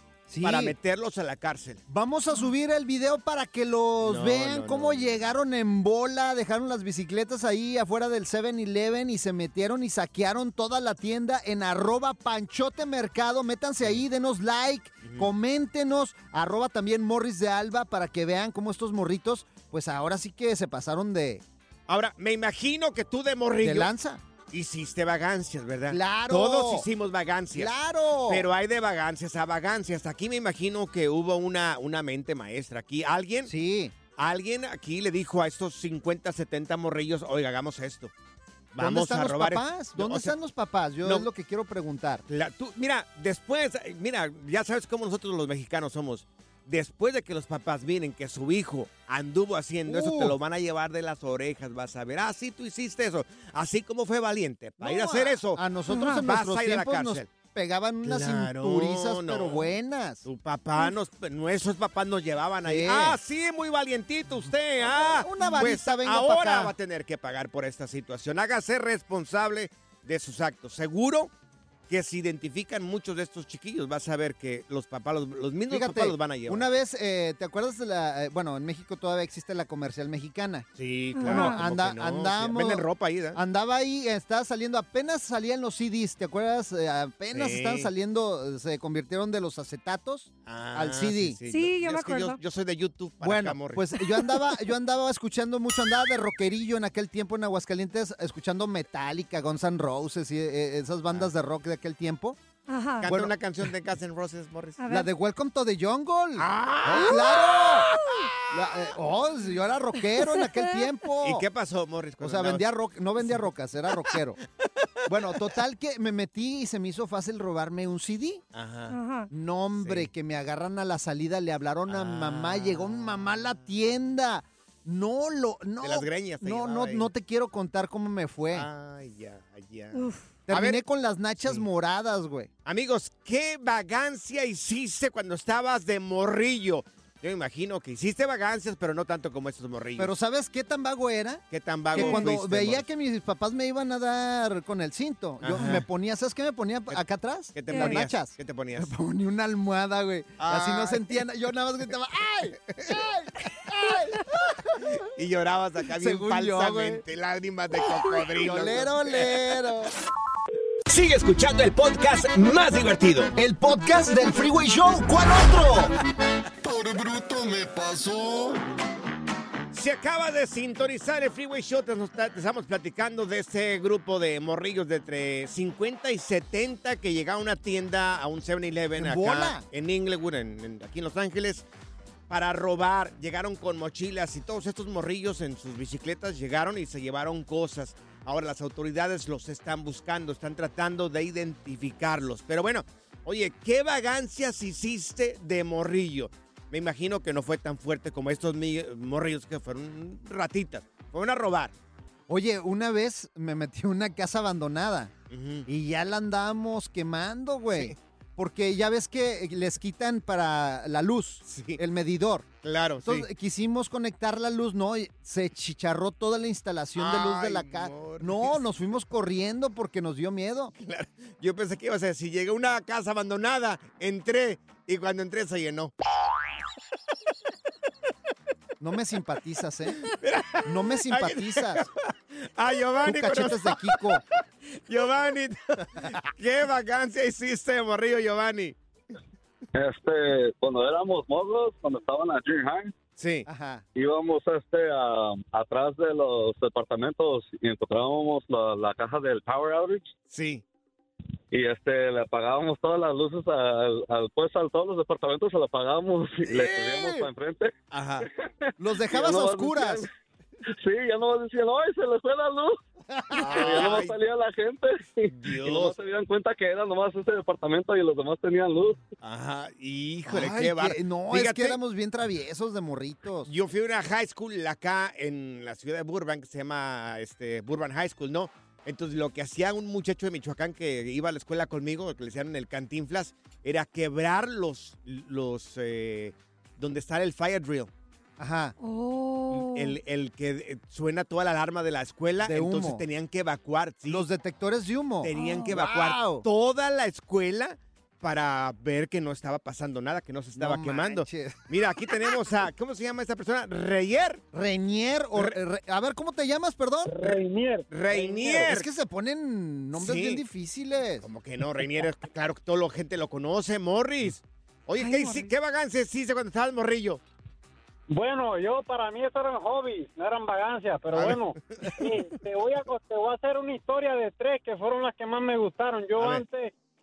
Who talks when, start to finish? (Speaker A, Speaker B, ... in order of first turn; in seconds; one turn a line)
Speaker A: 0.3-0.8
Speaker B: 0.4-1.8
Speaker A: 1.9-21.4
Speaker B: 4.0-5.3
Speaker B: 15.0-15.3
Speaker B: 21.9-23.9
Speaker A: 23.6-24.2
Speaker B: 24.5-27.7
Speaker A: 25.9-26.9
Speaker A: 27.6-28.5
Speaker B: 28.3-33.5
Speaker A: 33.5-33.9
Speaker B: 34.2-38.1
Speaker B: 38.7-40.4
Speaker A: 38.8-42.2
Speaker B: 41.0-41.3
Speaker B: 42.3-55.6
Speaker A: 49.9-50.4
Speaker A: 54.8-60.2
Speaker C: 55.9-56.3
Speaker B: 56.2-57.3
Speaker B: 58.0-59.7
Speaker B: 60.2-71.3
Speaker A: 62.6-63.2
Speaker A: 64.9-66.7
Speaker B: 71.9-76.7
Speaker A: 75.7-80.7
Speaker B: 80.8-83.4
Speaker C: 81.2-81.6
Speaker A: 81.2-91.4
Speaker B: 87.3-87.9
Speaker B: 90.5-93.8
Speaker C: 91.5-92.4
Speaker A: 93.2-102.4
Speaker C: 102.7-103.1
Speaker B: 103.0-104.8
Speaker A: 103.1-103.3
Speaker C: 104.8-105.1
Speaker A: 104.9-107.9
Speaker B: 106.4-108.6
Speaker C: 107.9-108.3
Speaker A: 108.5-111.5
Speaker C: 110.2-110.8
Speaker B: 111.2-113.5
Speaker A: 112.2-114.4
Speaker B: 114.1-115.4
Speaker A: 115.1-118.4
Speaker B: 118.5-119.0
Speaker C: 118.9-119.3
Speaker A: 119.3-128.7
Speaker B: 119.8-120.1
Speaker B: 121.9-123.7
Speaker B: 125.8-127.1
Speaker B: 128.5-130.8
Speaker C: 129.9-130.4
Speaker A: 130.5-132.5
Speaker B: 132.7-140.1
Speaker A: 140.0-154.9
Speaker B: 141.5-142.8
Speaker C: 141.9-142.3
Speaker B: 145.4-145.9
Speaker B: 147.6-148.9
Speaker C: 147.7-148.0
Speaker B: 150.4-151.3
Speaker B: 152.6-153.0
Speaker B: 154.8-159.3
Speaker A: 156.0-157.0
Speaker A: 158.3-159.9
Speaker B: 160.9-163.3
Speaker A: 163.4-165.9
Speaker D: 166.6-168.6
Speaker B: 169.7-181.7
Speaker A: 179.0-179.6
Speaker B: 182.3-201.7
Speaker A: 202.3-205.1
Speaker B: 205.3-205.7
Speaker A: 205.7-212.5
Speaker B: 211.4-211.8
Speaker B: 212.6-213.3
Speaker A: 213.0-220.7
Speaker B: 217.0-218.6
Speaker B: 220.8-225.9
Speaker A: 228.8-230.1
Speaker B: 230.1-238.8
Speaker A: 230.6-231.8
Speaker A: 233.0-234.2
Speaker E: 239.8-242.9
Speaker B: 243.2-243.5
Speaker A: 243.5-243.8
Speaker E: 243.9-250.1
Speaker B: 250.3-250.6
Speaker E: 251.5-257.8
Speaker A: 256.5-257.3
Speaker B: 257.9-258.3
Speaker E: 258.6-260.1
Speaker A: 258.8-260.1
Speaker E: 260.8-262.8
Speaker A: 263.1-263.9
Speaker B: 263.4-264.1
Speaker E: 263.4-269.0
Speaker B: 265.3-266.0
Speaker B: 269.2-271.8
Speaker A: 270.3-273.5
Speaker B: 273.5-287.9
Speaker A: 288.4-288.8
Speaker C: 288.8-290.0
Speaker B: 289.5-294.2
Speaker A: 292.4-293.1
Speaker A: 294.1-296.4
Speaker B: 295.2-304.4
Speaker C: 295.3-295.7
Speaker A: 300.6-301.6
Speaker A: 304.5-307.2
Speaker F: 307.1-308.7
Speaker B: 307.9-308.9
Speaker A: 308.2-311.3
Speaker B: 310.0-310.4
Speaker B: 311.2-317.2
Speaker C: 315.0-315.5
Speaker F: 318.1-326.7
Speaker B: 321.1-322.1
Speaker B: 326.2-326.4